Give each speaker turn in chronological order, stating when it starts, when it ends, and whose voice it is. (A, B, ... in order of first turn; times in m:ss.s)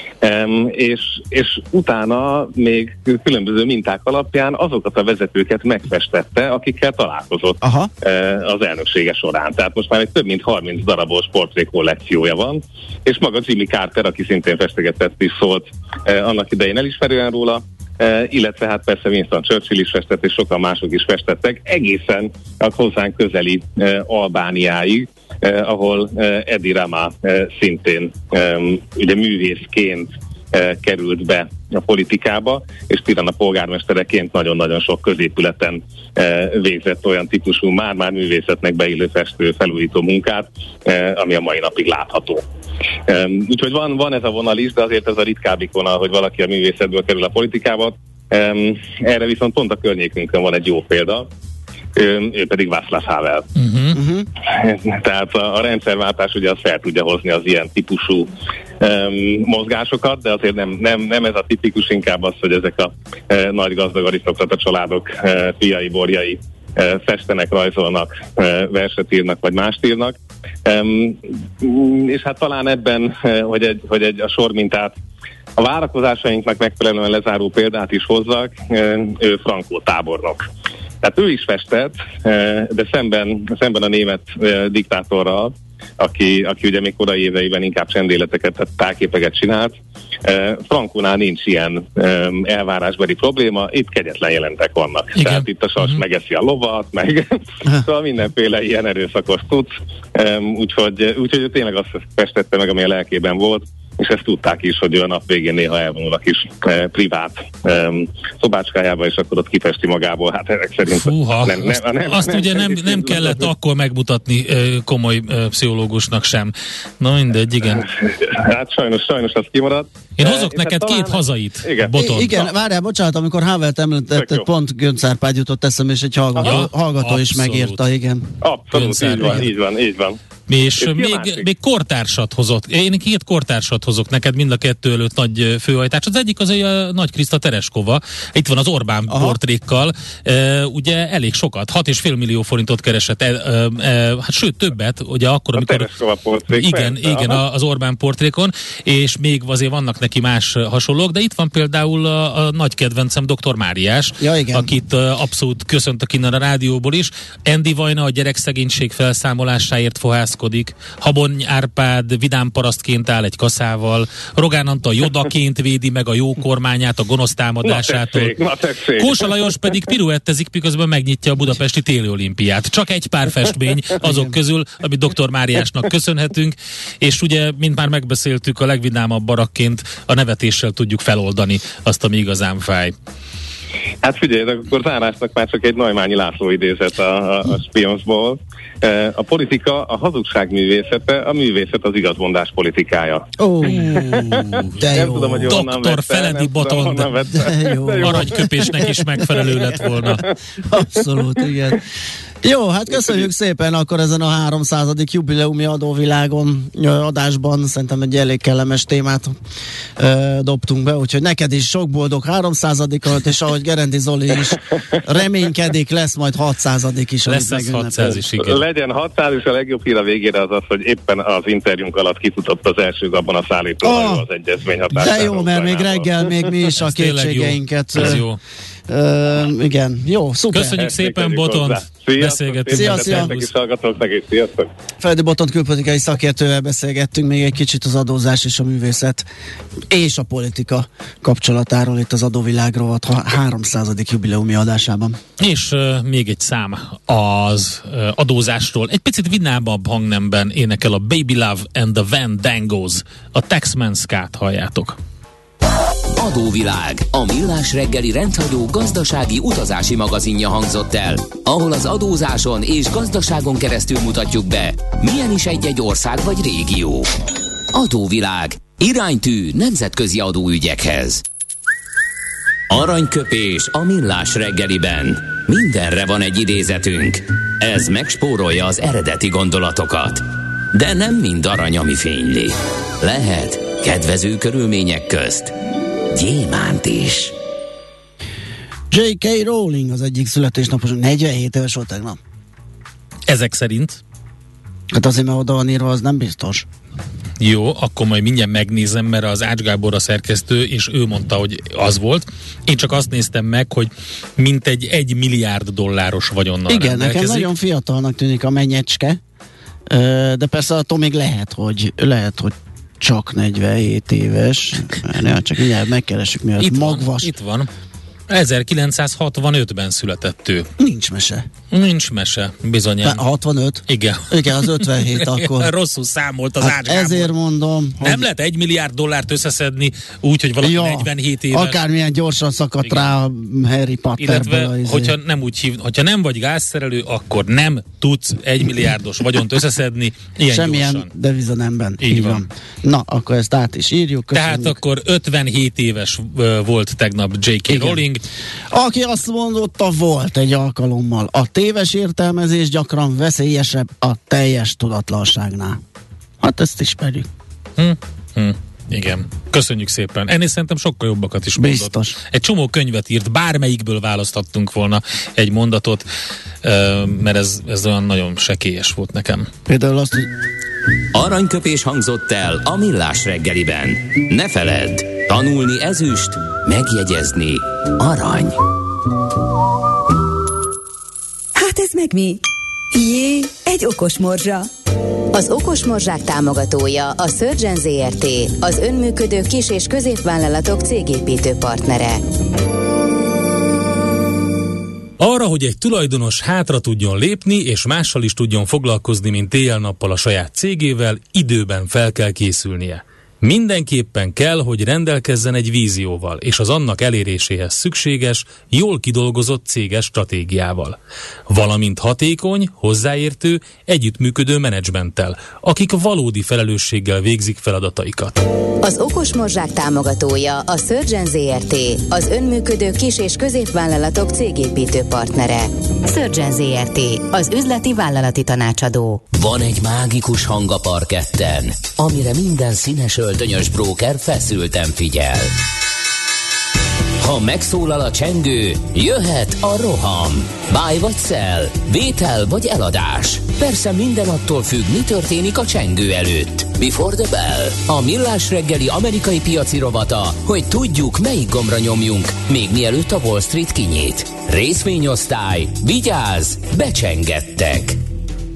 0:00.2-0:42.4 A
0:07.6-0:07.9 B
0:43.1-0:51.3 A
0:51.9-0:53.5 A
0:53.6-0:54.0 C
0:53.9-0:54.3 B
0:54.5-1:14.9 A
1:15.6-1:20.4 A
1:21.0-1:29.7 A
1:30.2-1:53.5 A
1:35.2-1:36.0 C
1:50.9-1:57.9 C
1:57.8-2:02.4 A
2:00.2-2:02.4 C
2:02.0-2:08.3 B
2:04.2-2:04.4 A
2:06.4-2:07.8 C
2:08.4-2:10.2 A
2:08.7-2:09.5 C
2:10.5-2:25.9 C
2:10.8-2:11.4 A
2:19.1-2:19.4 B
2:25.6-2:27.4 A
2:26.5-2:48.4 C
2:34.2-2:34.7 B
2:47.6-2:49.7 A
2:49.0-3:02.9 C
2:54.0-2:54.3 B
3:04.0-3:13.3 A
3:13.4-3:15.6 B
3:13.8-3:19.8 A
3:14.0-3:14.7 C
3:15.5-3:17.1 C
3:17.3-3:18.7 B
3:18.0-3:20.2 C
3:20.6-3:21.8 B
3:22.4-3:29.3 B
3:30.0-3:38.2 B
3:37.2-3:38.6 C
3:38.4-3:46.5 A
3:43.8-3:44.2 B
3:45.0-3:48.3 B
3:46.8-3:48.4 C
3:48.9-3:50.8 B
3:50.5-3:53.5 C
3:50.8-3:54.7 A
3:52.7-3:53.3 B
3:55.0-3:59.2 B
3:59.9-4:05.2 B
4:05.4-4:15.0 C
4:16.2-4:27.1 D
4:27.7-4:31.2 D
4:32.7-4:45.5 D
4:46.1-4:47.3 D
4:48.9-4:52.2 B
4:53.3-4:54.0 C
4:54.9-4:56.6 B
4:57.4-5:07.5 C
5:06.7-5:09.2 B
5:09.9-5:17.3 B
5:16.6-5:17.7 C
5:18.3-5:20.7 C
5:20.8-5:21.4 B
5:21.7-5:23.2 C
5:23.0-5:25.7 B
5:23.9-5:27.3 C
5:26.6-5:28.2 B
5:28.0-5:31.8 C
5:30.6-5:35.1 B
5:32.8-5:33.1 C
5:34.2-5:41.1 C
5:40.5-5:44.8 B
5:42.0-5:42.4 C
5:44.3-5:48.2 C
5:47.7-5:48.0 B
5:48.7-5:55.8 B
5:56.4-5:57.3 B
5:57.8-6:06.0 C
6:01.6-6:02.1 B
6:06.6-6:09.5 C
6:09.6-6:10.3 B
6:11.1-6:18.6 D
6:21.6-6:22.4 E
6:22.9-6:24.7 E
6:25.3-6:32.2 F
6:35.2-6:51.0 C
6:51.5-6:58.4 C
6:58.8-7:09.2 F
7:09.3-7:15.5 D
7:17.2-7:38.0 D